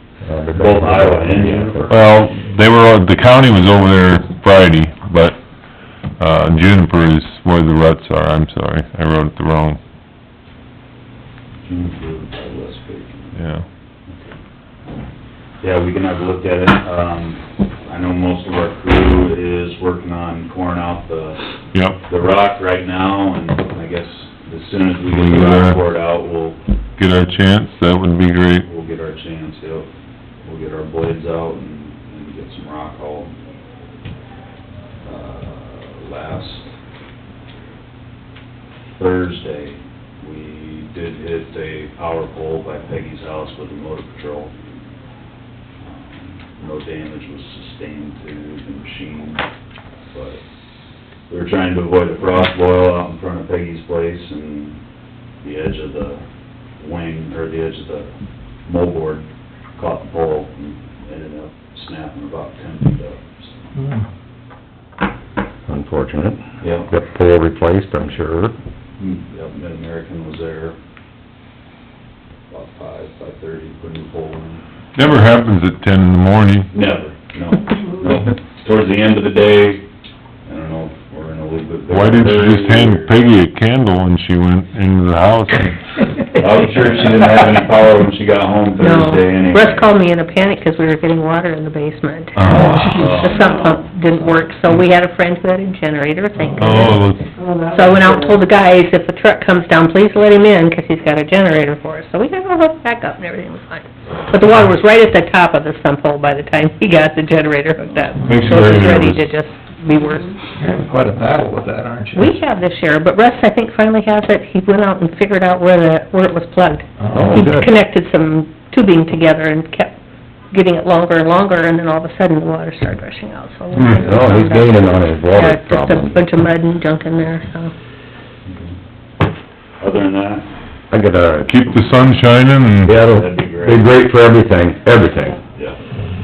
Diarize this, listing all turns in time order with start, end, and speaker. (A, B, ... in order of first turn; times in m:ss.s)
0:00.2-0:02.0 A
0:00.5-0:02.0 B
0:01.9-0:05.4 C
0:06.2-0:09.8 C
0:11.7-0:13.4 B
0:13.4-0:13.6 C
0:14.1-0:14.4 B
0:15.6-0:21.4 B
0:21.7-0:22.0 C
0:22.0-0:26.6 B
0:25.1-0:25.8 C
0:27.0-0:28.6 C
0:28.6-0:29.9 B
0:30.4-0:33.3 B
0:35.0-0:36.7 B
0:39.0-0:44.5 B
0:45.8-0:49.4 B
0:50.1-0:50.4 B
0:51.3-0:54.8 B
0:55.4-0:56.2 B
0:56.8-0:58.1 B
0:58.6-1:03.6 B
1:03.8-1:04.0 D
1:05.7-1:08.5 A
1:06.6-1:06.9 B
1:09.0-1:10.8 B
1:12.5-1:14.6 B
1:14.9-1:16.7 C
1:16.7-1:19.8 B
1:20.4-1:23.1 B
1:21.9-1:25.8 C
1:26.4-1:29.9 B
1:28.8-1:50.4 E
1:32.4-1:32.9 C
1:32.6-1:33.2 D
1:32.7-1:33.9 B
1:36.6-1:37.4 C
1:48.2-1:48.6 D
1:48.2-1:49.3 C
1:50.6-1:52.4 D
1:52.2-2:00.0 E
1:57.0-1:57.5 D
1:57.1-1:57.7 A
2:00.5-2:07.7 E
2:03.8-2:04.0 C
2:03.9-2:06.2 A
2:08.5-2:08.8 B
2:09.8-2:10.5 B
2:10.9-2:11.6 A
2:11.5-2:13.0 C
2:12.8-2:15.4 A
2:13.0-2:13.9 B